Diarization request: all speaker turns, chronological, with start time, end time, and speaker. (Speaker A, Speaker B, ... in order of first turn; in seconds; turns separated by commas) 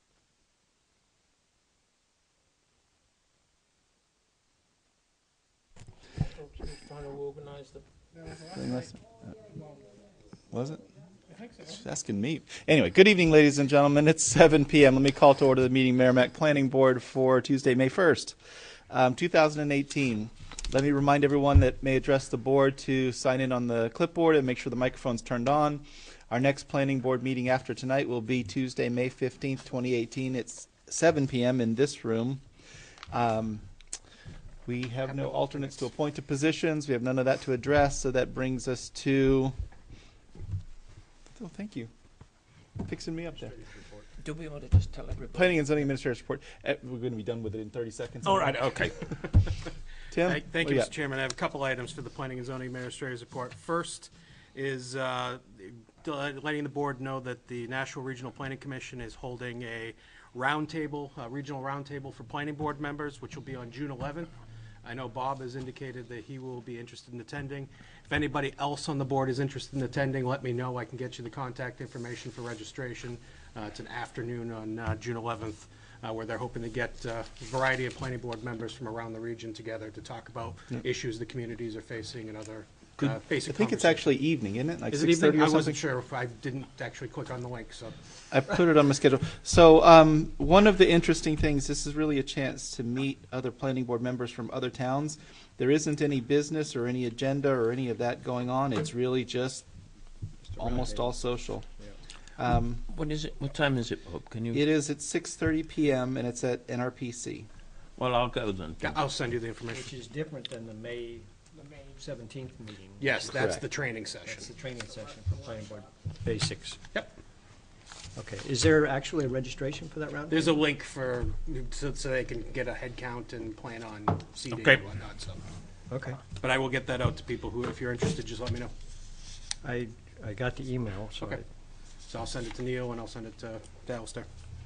Speaker A: 7.0-7.6, Speaker B: 8.4-9.3, Speaker B: 10.5-10.9, Speaker B: 11.6-18.4, Speaker B: 18.9-32.4, Speaker B: 33.1-33.6, Speaker B: 34.7-39.5, Speaker B: 41.3-41.9, Speaker B: 42.8-43.5, Speaker C: 43.5-44.0, Speaker A: 44.2-45.6, Speaker B: 45.3-48.7, Speaker A: 48.3-48.9, Speaker B: 50.1-50.9, Speaker D: 50.2-84.0, Speaker B: 83.0-85.8, Speaker D: 84.9-88.0, Speaker B: 88.3-99.7, Speaker C: 100.4-101.2, Speaker B: 100.6-101.7, Speaker B: 102.4-102.8, Speaker A: 102.9-104.7, Speaker B: 104.5-107.5, Speaker A: 108.0-109.0, Speaker D: 108.8-109.9, Speaker C: 109.7-113.6, Speaker D: 113.0-114.5, Speaker B: 113.3-113.6, Speaker C: 114.2-116.8, Speaker C: 118.2-120.6, Speaker D: 120.3-125.4, Speaker C: 125.9-126.2, Speaker D: 126.4-128.7, Speaker C: 129.6-131.4, Speaker D: 132.1-134.3